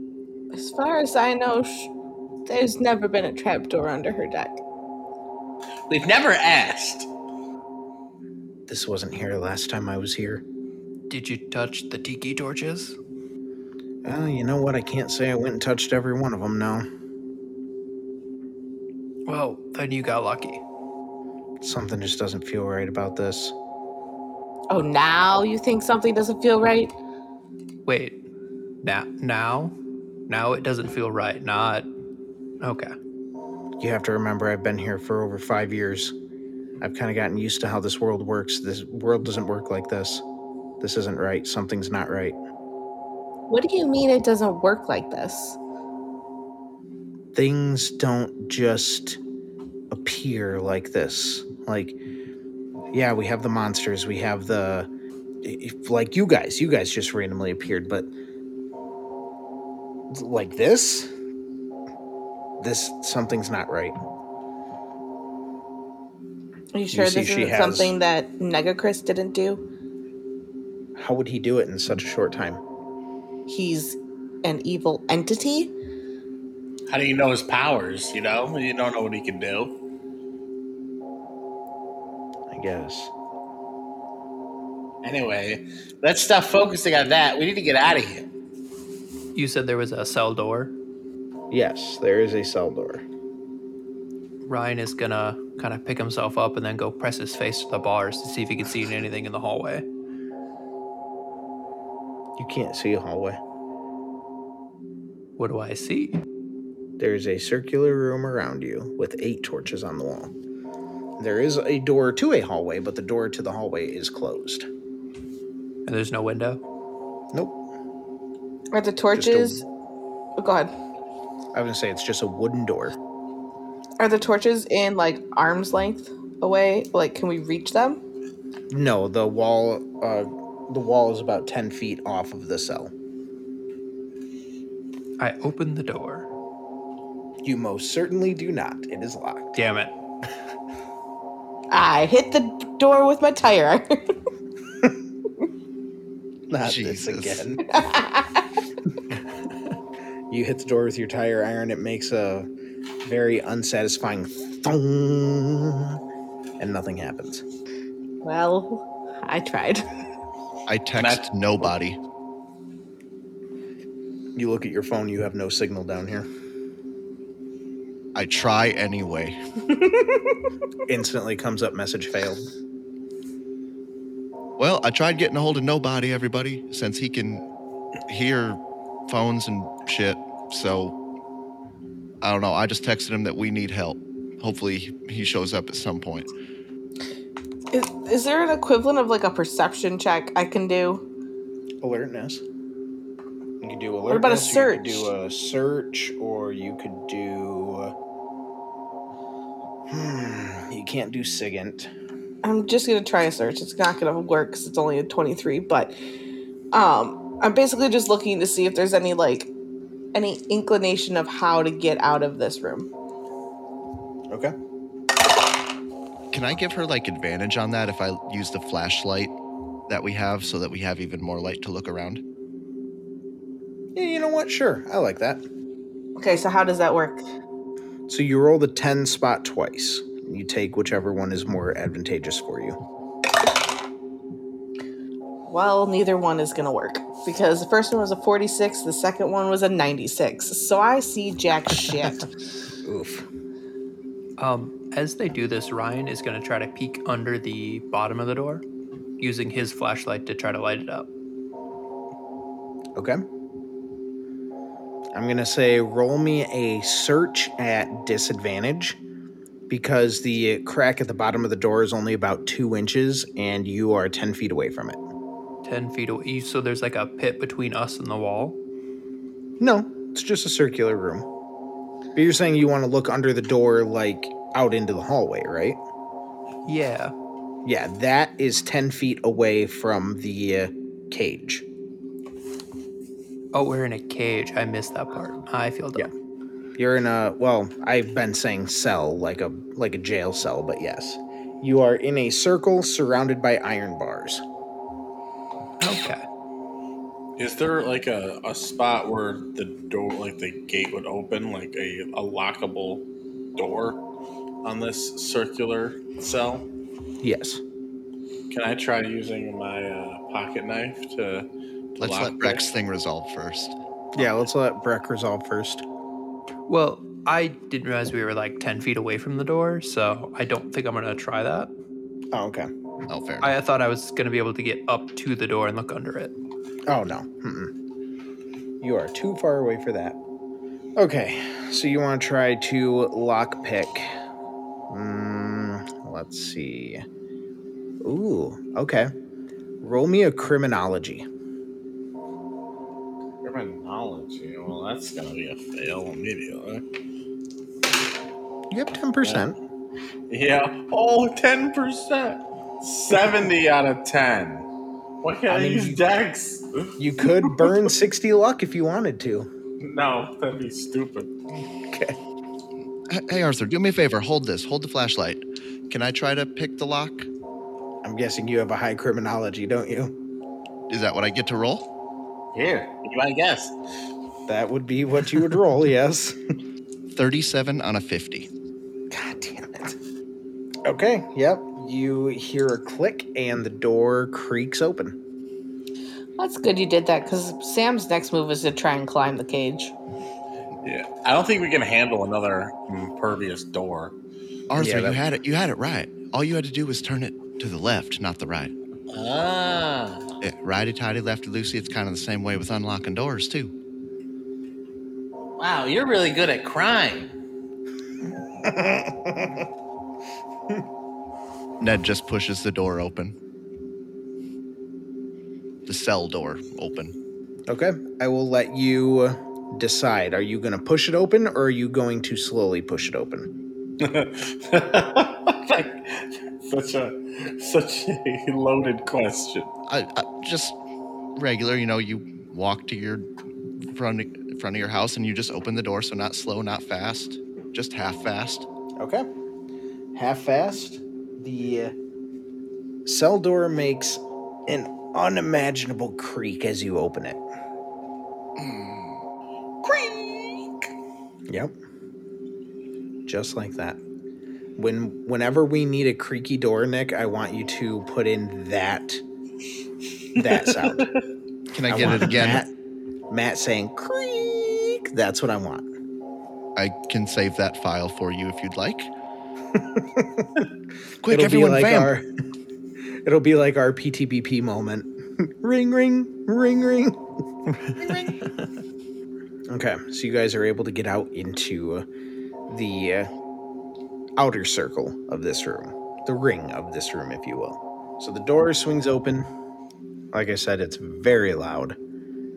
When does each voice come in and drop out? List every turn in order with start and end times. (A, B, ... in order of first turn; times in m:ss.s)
0:00.5-0:01.9 A
0:02.4-0:04.6 A
0:05.9-0:07.1 B
0:08.7-0:10.4 C
0:11.1-0:13.0 D
0:14.0-0:16.8 C
0:19.2-0:20.6 D
0:21.6-0:23.5 C
0:24.7-0:26.9 A
0:27.8-0:28.2 D
0:28.8-0:29.7 D
0:30.3-0:31.9 D
0:32.6-0:32.9 D
0:33.8-0:36.1 C
0:36.8-0:40.2 C
0:40.8-0:42.4 C
0:43.5-0:45.6 A
0:47.3-0:49.2 C
0:49.9-0:52.0 C
0:52.9-0:54.9 C
0:55.4-0:58.1 C
1:00.1-1:01.1 C
1:02.6-1:04.0 C
1:06.7-1:09.6 A
1:06.9-1:07.9 C
1:11.0-1:12.6 C
1:13.5-1:15.7 A
1:16.9-1:19.7 B
1:22.5-1:23.1 C
1:25.0-1:28.2 B
1:29.3-1:30.7 D
1:31.5-1:33.0 C
1:34.4-1:39.8 D
1:42.4-1:43.4 C
1:45.4-1:46.2 D
1:47.0-1:50.3 C
1:51.2-1:54.7 C
1:55.8-1:56.6 D
1:58.7-1:59.6 A
1:59.1-1:59.6 C
2:00.4-2:00.7 A
2:01.5-2:03.0 C
2:04.0-2:08.0 A
2:08.7-2:12.9 C
2:15.2-2:16.3 D
2:17.4-2:19.6 C
2:19.5-2:19.9 D
2:21.7-2:24.1 A
2:26.5-2:27.6 C
2:26.6-2:27.5 E
2:27.6-2:28.5 A
2:30.3-2:32.5 C
2:33.0-2:36.0 C
2:36.6-2:37.4 C
2:38.2-2:39.8 A
2:40.7-2:42.0 E
2:41.0-2:41.2 B
2:44.4-2:46.3 C
2:48.1-2:49.4 E
2:49.9-2:50.2 A
2:50.9-2:52.5 C
2:54.6-2:57.4 E
2:58.1-3:00.9 E
3:02.2-3:06.3 E
3:07.7-3:11.0 A
3:11.8-3:12.4 C
3:13.6-3:17.9 C
3:14.1-3:15.1 A
3:19.9-3:21.9 C
3:22.4-3:26.0 A
3:26.7-3:29.5 A
3:30.1-3:32.9 A
3:36.3-3:39.3 E
3:39.9-3:42.2 E
3:43.9-3:45.4 C
3:46.2-3:47.2 A
3:48.1-3:52.8 C
3:55.5-4:02.3 A
4:02.8-4:03.3 C
4:04.4-4:08.6 D
4:09.2-4:11.1 D
4:12.9-4:13.2 C
4:15.1-4:19.0 C
4:19.7-4:25.0 C
4:25.6-4:28.6 D
4:29.6-4:31.3 C
4:32.1-4:35.8 C
4:36.6-4:37.1 D
4:37.6-4:41.6 C
4:43.5-4:46.1 D
4:46.8-4:54.4 C
4:55.8-4:56.2 D
4:57.4-5:03.0 B
5:03.6-5:04.0 B
5:04.6-5:06.6 B
5:07.2-5:07.6 C
5:08.5-5:12.7 B
5:12.0-5:13.8 E
5:14.1-5:15.8 C
5:16.7-5:21.7 D
5:22.3-5:22.7 C
5:23.1-5:23.5 E
5:23.4-5:26.3 D
5:26.9-5:27.7 C
5:28.8-5:30.2 C
5:31.0-5:34.1 C
5:34.9-5:37.0 C
5:38.0-5:39.1 C
5:39.8-5:41.2 C
5:43.4-5:46.8 B
5:48.7-5:49.6 C
5:50.3-5:54.6 B
5:55.2-5:57.8 B
5:55.5-5:56.0 C
5:57.0-5:59.5 C
5:59.8-6:01.3 B
6:01.9-6:02.2 C
6:03.1-6:07.3 E
6:08.0-6:10.1 C
6:10.9-6:11.8 E
6:12.5-6:13.7 B
6:14.5-6:16.4 C
6:17.1-6:18.5 E
6:19.1-6:20.0 C
6:20.8-6:25.2 C
6:26.4-6:29.9 A
6:30.8-6:34.1 B
6:34.7-6:38.7 E
6:34.8-6:35.2 C
6:39.1-6:40.2 B
6:40.4-6:43.7 E
6:45.6-6:47.3 B
6:48.6-6:49.7 C
6:51.8-6:53.3 E
6:55.8-6:57.1 E
6:57.7-7:03.5 C
7:04.0-7:09.7 B
7:09.9-7:10.8 E
7:11.4-7:13.3 E
7:13.9-7:18.6 E
7:19.0-7:19.3 C
7:20.1-7:21.9 C
7:23.0-7:27.4 C
7:29.8-7:30.7 B
7:31.5-7:31.7 C
7:33.2-7:34.0 C
7:34.8-7:39.2 C
7:40.3-7:41.1 C
7:41.7-7:42.6 E
7:41.9-7:42.7 C
7:43.3-7:45.8 C
7:46.8-7:49.1 E
7:49.7-7:50.6 C
7:51.2-7:52.1 E
7:51.3-7:52.2 C
7:53.2-7:57.2 C
7:58.0-7:58.4 C
7:59.7-8:02.0 C
8:02.7-8:03.3 C
8:04.4-8:09.5 C
8:10.3-8:12.0 C